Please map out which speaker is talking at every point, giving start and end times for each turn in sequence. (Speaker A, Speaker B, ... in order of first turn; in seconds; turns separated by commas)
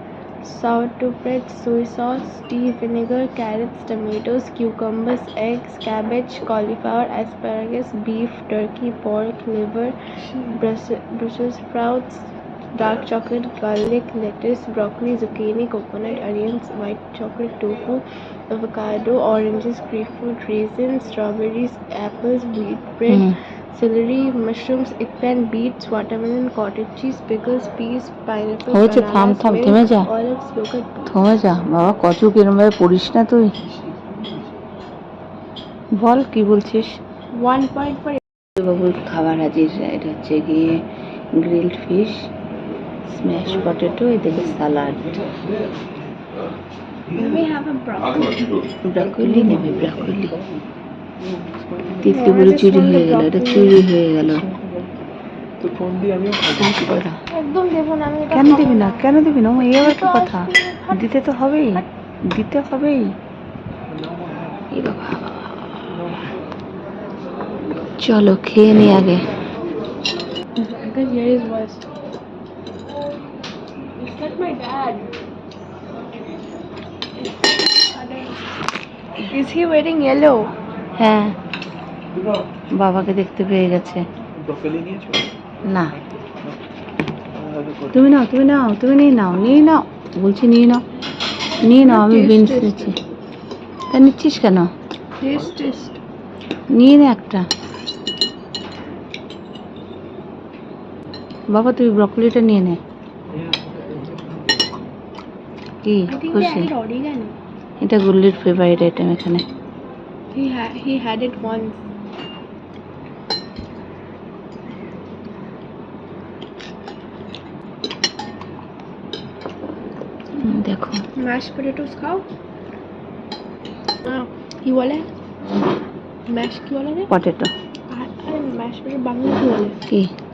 Speaker A: 0.4-31.1, Speaker B: 23.1-23.4, Speaker B: 28.7-30.1, Speaker B: 31.1-33.5, Speaker B: 36.0-37.0, Speaker A: 37.3-38.2, Speaker B: 38.6-40.8, Speaker B: 41.4-42.2, Speaker B: 43.1-45.1, Speaker A: 47.1-48.6, Speaker B: 48.9-50.4, Speaker C: 49.1-50.6, Speaker C: 51.2-52.1, Speaker B: 52.0-54.4, Speaker A: 52.1-53.8, Speaker C: 54.4-54.9, Speaker C: 55.6-57.0, Speaker B: 56.6-57.2, Speaker A: 57.3-61.2, Speaker B: 58.3-63.1, Speaker C: 63.9-64.7, Speaker B: 64.7-65.8, Speaker B: 68.0-69.3, Speaker A: 70.6-71.9, Speaker A: 74.0-75.1, Speaker A: 77.2-78.5, Speaker A: 79.3-80.5, Speaker B: 81.0-81.3, Speaker B: 82.8-84.0, Speaker C: 84.4-85.3, Speaker B: 85.7-86.0, Speaker C: 86.2-86.6, Speaker C: 87.3-88.1, Speaker B: 87.9-90.8, Speaker B: 91.7-93.0, Speaker A: 91.8-93.0, Speaker B: 93.9-94.7, Speaker A: 95.2-96.0, Speaker B: 96.7-97.5, Speaker B: 101.5-102.8, Speaker C: 103.3-103.9, Speaker B: 105.9-106.7, Speaker A: 106.1-107.3, Speaker B: 107.8-109.4, Speaker A: 110.3-111.8, Speaker B: 120.4-121.0, Speaker A: 121.2-122.3, Speaker A: 124.0-125.1, Speaker A: 126.3-127.1, Speaker B: 127.1-127.5, Speaker A: 127.9-129.8